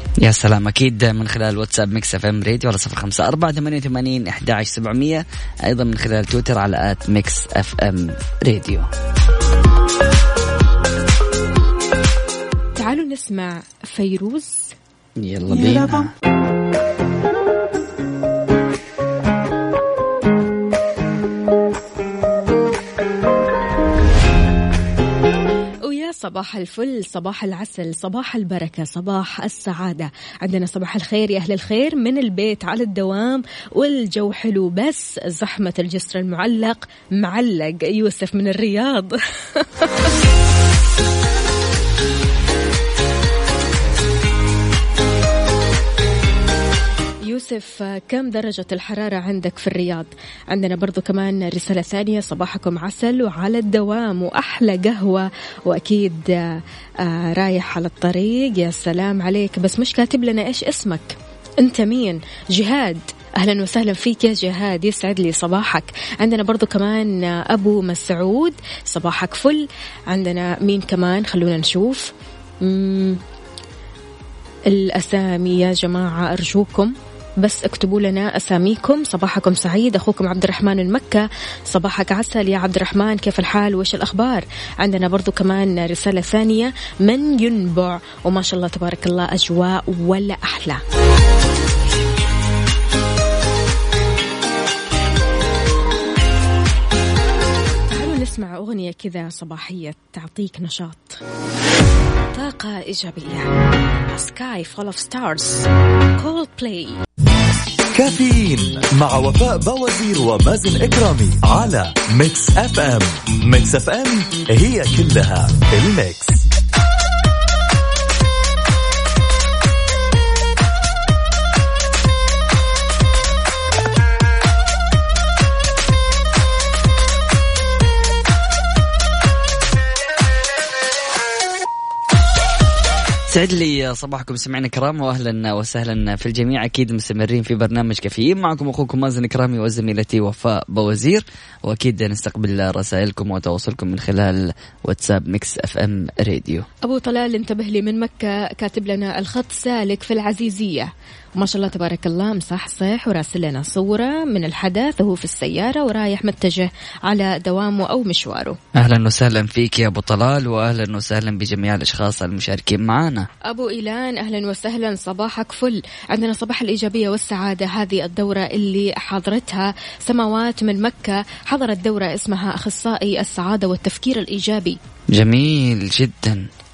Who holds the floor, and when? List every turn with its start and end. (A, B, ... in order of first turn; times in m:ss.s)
0:00.2-0:08.9 A
0:12.8-0:14.7 B
0:15.2-0:16.1 A
0:25.8-0:40.1 B
0:47.3-1:12.1 B
1:12.6-1:13.2 B
1:14.7-1:30.8 B
1:37.9-1:41.2 B
1:42.3-1:43.5 B
1:44.1-1:47.0 B
1:47.9-1:56.4 C
2:13.3-2:26.7 A
2:26.8-2:38.6 B
2:38.8-2:43.3 A
2:43.5-2:54.8 B
2:55.1-2:56.5 A